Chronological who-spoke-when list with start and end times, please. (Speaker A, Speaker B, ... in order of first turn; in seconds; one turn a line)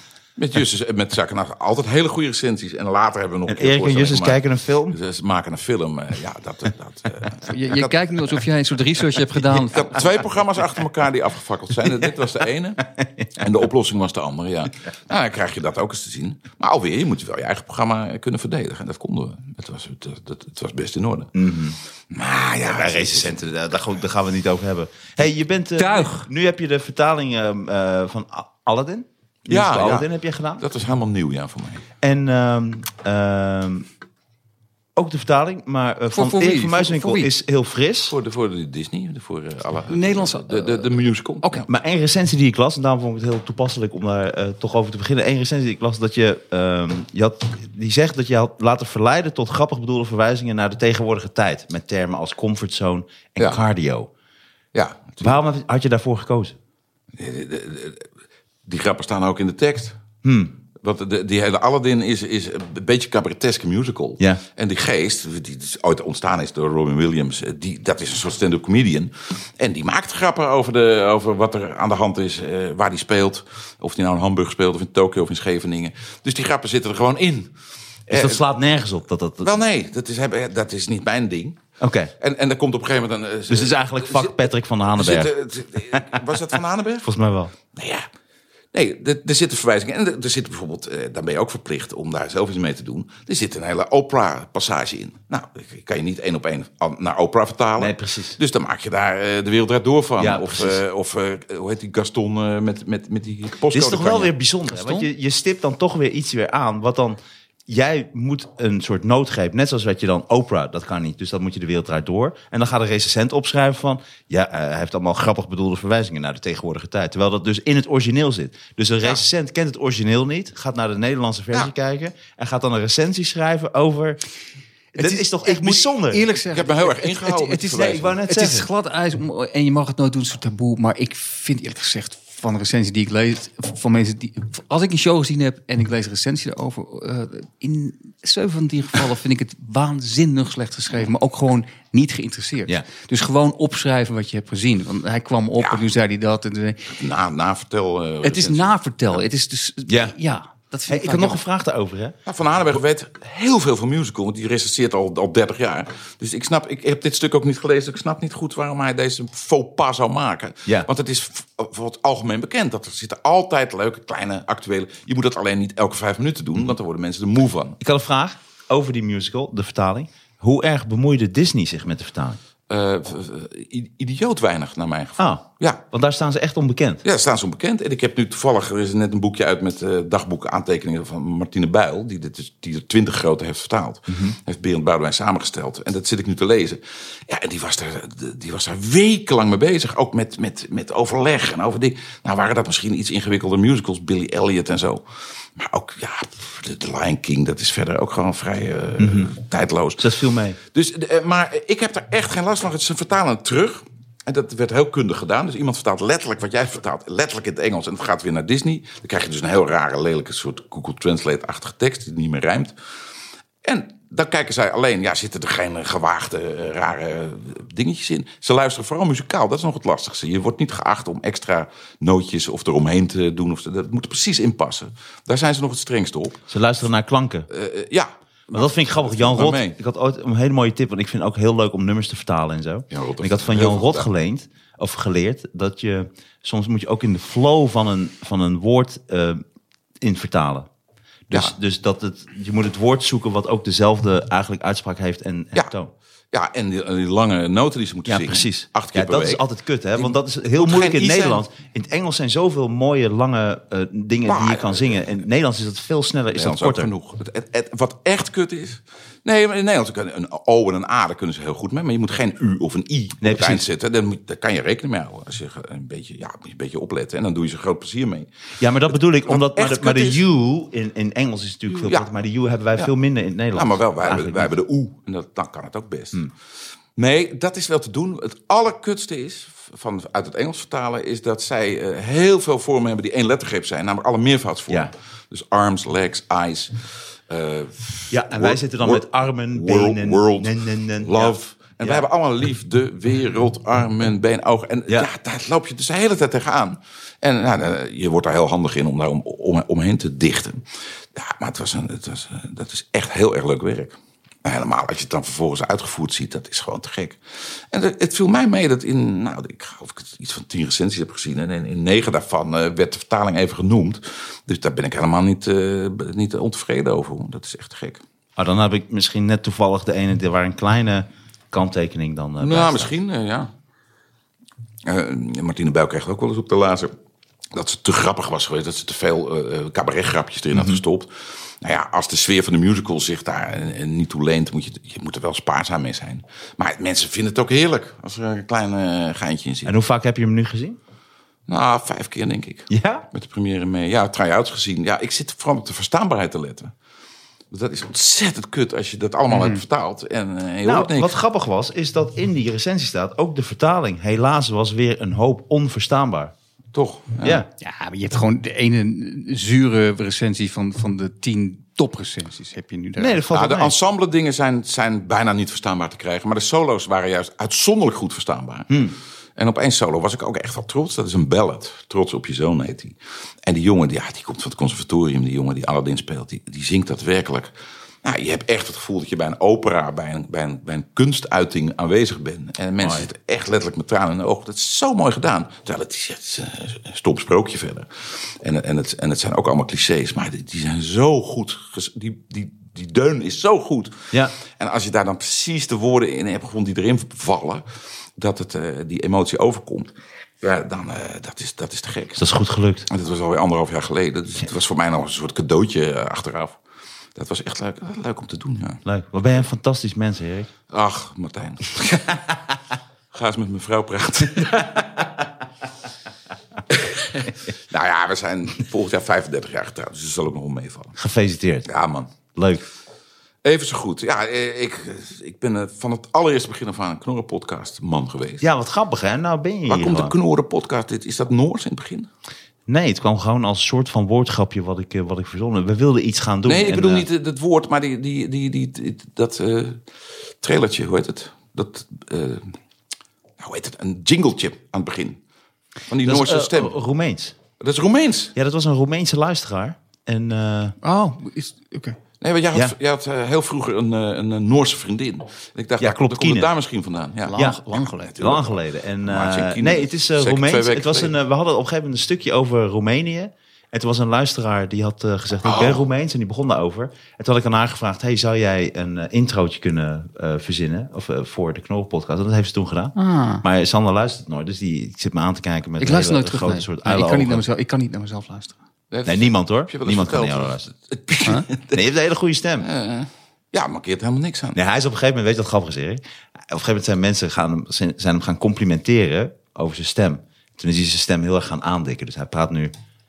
Speaker A: 0.4-8.3
Speaker B: 3.5-5.0
Speaker C: 7.5-10.0
Speaker A: 9.5-21.3
Speaker B: 21.4-21.8
Speaker A: 22.1-23.4
Speaker B: 22.6-30.6
Speaker C: 25.8-26.3
Speaker A: 29.5-31.9
Speaker B: 32.0-33.9
Speaker B: 35.0-38.1
Speaker C: 36.1-37.3
Speaker A: 38.1-41.6
Speaker C: 39.9-40.9
Speaker C: 41.4-41.7
Speaker B: 41.7-54.1
Speaker A: 53.4-53.6
Speaker A: 54.7-55.4
Speaker B: 55.2-56.6
Speaker A: 57.2-58.1
Speaker A: 58.7-60.0
Speaker B: 60.2-60.5
Speaker A: 60.8-77.5
Speaker A: 78.1-78.4
Speaker B: 78.1-79.5
Speaker A: 79.4-81.6
Speaker B: 81.8-82.1
Speaker A: 82.2-87.1
Speaker B: 83.5-85.3
Speaker B: 85.9-86.2
Speaker B: 87.0-87.5
Speaker A: 87.7-88.1
Speaker A: 88.7-104.3
Speaker B: 97.8-98.4
Speaker B: 100.2-100.8
Speaker B: 103.7-124.2
Speaker C: 104.7-105.1
Speaker B: 125.0-126.3
Speaker C: 125.0-147.0
Speaker A: 126.5-128.2
Speaker B: 127.6-128.7
Speaker A: 145.6-145.9
Speaker A: 146.9-148.7
Speaker C: 148.2-151.4
Speaker B: 149.9-150.1
Speaker B: 150.9-152.2
Speaker A: 152.3-167.8
Speaker B: 167.8-172.4
Speaker A: 172.7-175.8
Speaker B: 175.2-177.0
Speaker A: 177.1-195.1
Speaker B: 184.1-184.4
Speaker A: 195.6-200.2
Speaker B: 199.0-199.3
Speaker B: 200.0-200.6
Speaker A: 200.7-212.7
Speaker A: 213.6-226.4
Speaker B: 226.5-227.5
Speaker A: 227.5-229.8
Speaker B: 228.5-239.4
Speaker A: 232.9-234.1
Speaker B: 240.0-240.7
Speaker B: 241.3-245.9
Speaker A: 246.3-249.4
Speaker B: 248.1-256.9
Speaker A: 250.0-251.4
Speaker A: 254.3-255.1
Speaker A: 256.3-268.3
Speaker B: 263.2-263.6
Speaker B: 268.6-274.5
Speaker A: 269.2-270.2
Speaker A: 271.7-272.1
Speaker A: 273.5-276.3
Speaker A: 277.0-300.6
Speaker B: 288.1-292.1
Speaker A: 301.1-307.2
Speaker A: 307.7-318.0
Speaker B: 318.4-322.9
Speaker A: 322.4-323.5
Speaker A: 324.9-326.9
Speaker A: 327.5-339.7
Speaker B: 330.5-330.8
Speaker B: 339.6-340.8
Speaker A: 341.5-346.7
Speaker B: 342.7-343.1
Speaker A: 347.5-351.1
Speaker C: 349.3-349.6
Speaker B: 350.6-356.3
Speaker A: 356.7-357.4
Speaker B: 357.2-357.5
Speaker C: 357.6-363.2
Speaker B: 363.0-363.8
Speaker A: 363.3-368.8
Speaker B: 368.7-369.0
Speaker A: 369.4-377.5
Speaker A: 378.0-397.6
Speaker B: 382.8-383.1
Speaker A: 398.2-399.9
Speaker A: 400.4-402.2
Speaker B: 402.2-402.9
Speaker A: 402.9-406.6
Speaker A: 407.1-408.8
Speaker B: 408.8-410.5
Speaker A: 410.7-412.5
Speaker A: 413.1-415.1
Speaker A: 416.7-421.0
Speaker B: 421.0-421.7
Speaker A: 421.7-422.2
Speaker B: 422.3-422.6
Speaker A: 423.4-428.5
Speaker B: 428.4-430.1
Speaker A: 429.7-432.1
Speaker B: 432.7-437.1
Speaker A: 436.4-439.8
Speaker A: 440.4-442.5
Speaker A: 443.4-445.2
Speaker A: 445.9-446.7
Speaker B: 446.0-447.4
Speaker A: 447.6-448.3
Speaker B: 448.4-450.8
Speaker C: 450.8-452.0
Speaker A: 452.2-461.1
Speaker B: 455.8-456.5
Speaker C: 457.3-458.2
Speaker B: 457.4-457.6
Speaker B: 458.2-477.4
Speaker A: 465.4-465.9
Speaker C: 473.0-473.4
Speaker C: 475.8-478.6
Speaker A: 478.9-481.9
Speaker B: 479.1-480.7
Speaker B: 481.5-482.7
Speaker A: 482.6-484.6
Speaker B: 484.6-492.7